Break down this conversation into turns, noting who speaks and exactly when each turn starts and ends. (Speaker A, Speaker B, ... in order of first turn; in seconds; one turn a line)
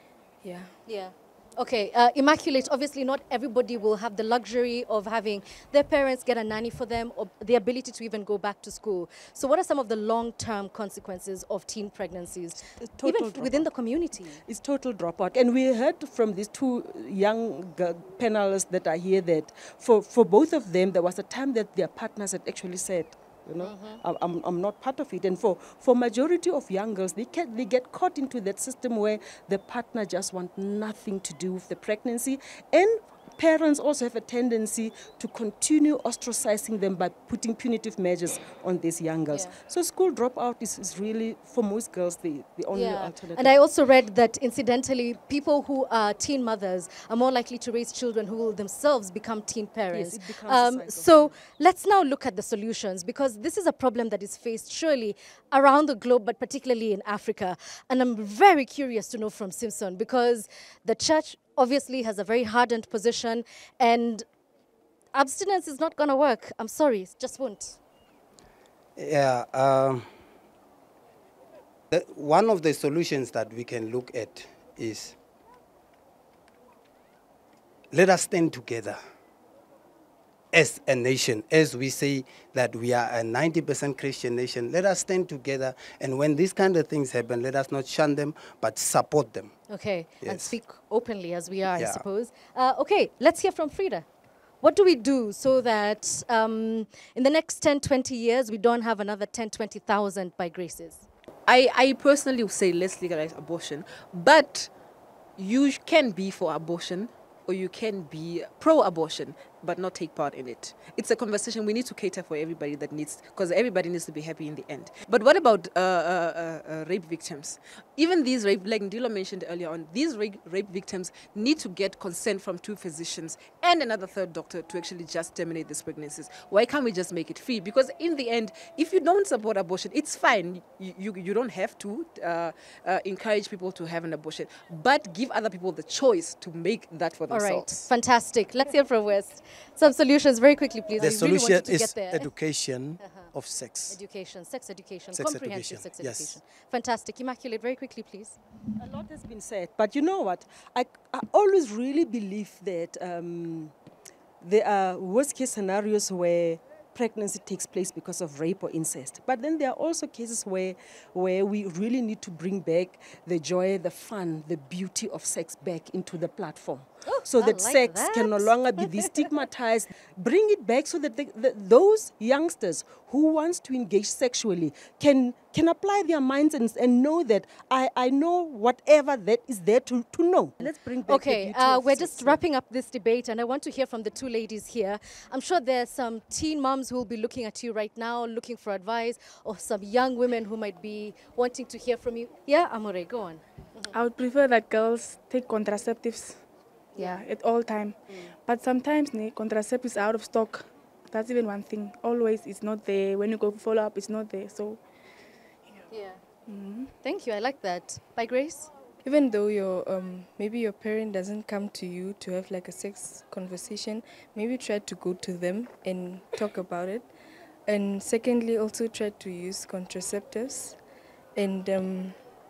Speaker A: 0.4-0.7
Speaker B: 0.9-14.4
Speaker C: 12.8-13.7
Speaker C: 14.4-43.5
Speaker B: 23.6-24.0
Speaker B: 42.7-64.2
Speaker C: 49.9-51.3
Speaker B: 65.1-67.8
Speaker D: 69.0-70.1
Speaker D: 71.9-75.2
Speaker D: 77.9-79.0
Speaker D: 80.5-89.5
Speaker B: 89.7-94.0
Speaker D: 90.2-90.5
Speaker D: 91.8-92.0
Speaker B: 94.6-101.0
Speaker E: 101.5-104.7
Speaker E: 105.4-137.9
Speaker B: 137.3-142.3
Speaker F: 141.0-144.0
Speaker B: 143.0-143.3
Speaker B: 143.9-148.4
Speaker F: 145.1-146.4
Speaker C: 148.8-153.7
Speaker C: 154.4-182.4
Speaker B: 167.0-169.1
Speaker B: 180.6-193.9
Speaker G: 193.9-196.4
Speaker B: 196.9-197.2
Speaker G: 197.0-204.8
Speaker B: 205.9-206.2
Speaker G: 206.5-206.9
Speaker B: 207.0-208.7
Speaker A: 209.0-217.1
Speaker A: 217.7-220.8
Speaker A: 221.3-222.2